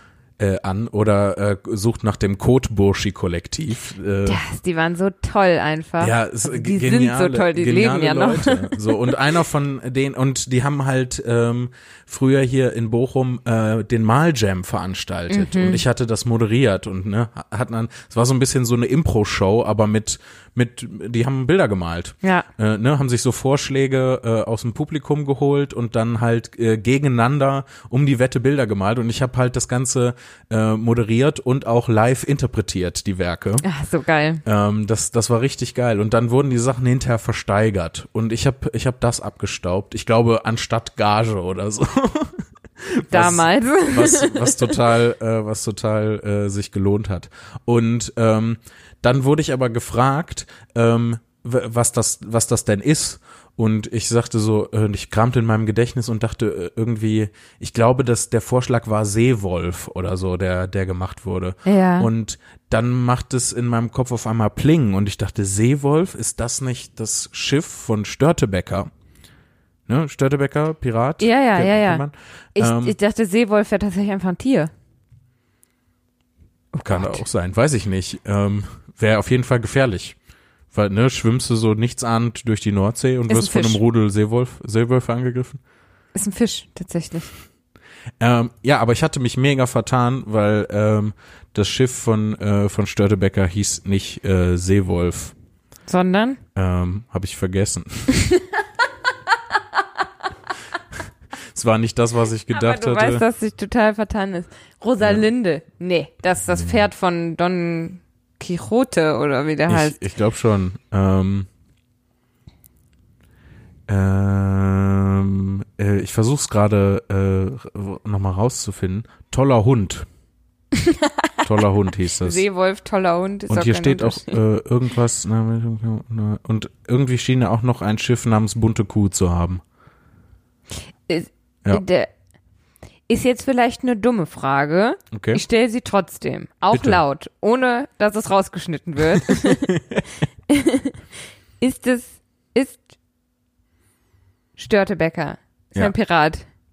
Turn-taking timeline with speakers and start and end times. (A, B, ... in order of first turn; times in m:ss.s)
0:00.4-0:04.4 A
0:04.3-0:09.1 B
0:06.0-0:33.6 A
0:15.3-0:15.8 B
0:33.6-0:34.4 B
0:34.4-1:08.9 A
0:43.1-0:44.8 B
1:01.6-1:02.1 B
1:09.9-1:13.0 A
1:11.2-1:12.0 B
1:12.6-1:14.7 B
1:16.7-1:17.2 B
1:16.9-1:20.2 A
1:20.7-1:25.6 A
1:23.3-1:23.8 B
1:26.2-1:27.3 B
1:28.2-1:35.4 A
1:35.9-1:36.4 B
1:36.6-1:38.2 A
1:38.2-1:38.5 B
1:39.5-1:39.8 B
1:41.5-1:43.2 A
1:42.5-1:50.0 B
1:45.0-1:45.3 A
1:46.5-1:46.8 A
1:49.7-1:51.5 A
1:53.9-2:00.1 A
2:00.8-2:01.4 B
2:01.4-2:02.4 A
2:02.2-2:04.4 B
2:03.5-2:09.6 A
2:11.1-2:12.1 B
2:13.1-2:19.8 B
2:15.1-2:15.4 A
2:16.7-2:17.0 A
2:19.1-2:20.0 A
2:20.5-2:21.0 B
2:21.6-2:22.9 B
2:24.6-2:26.5 B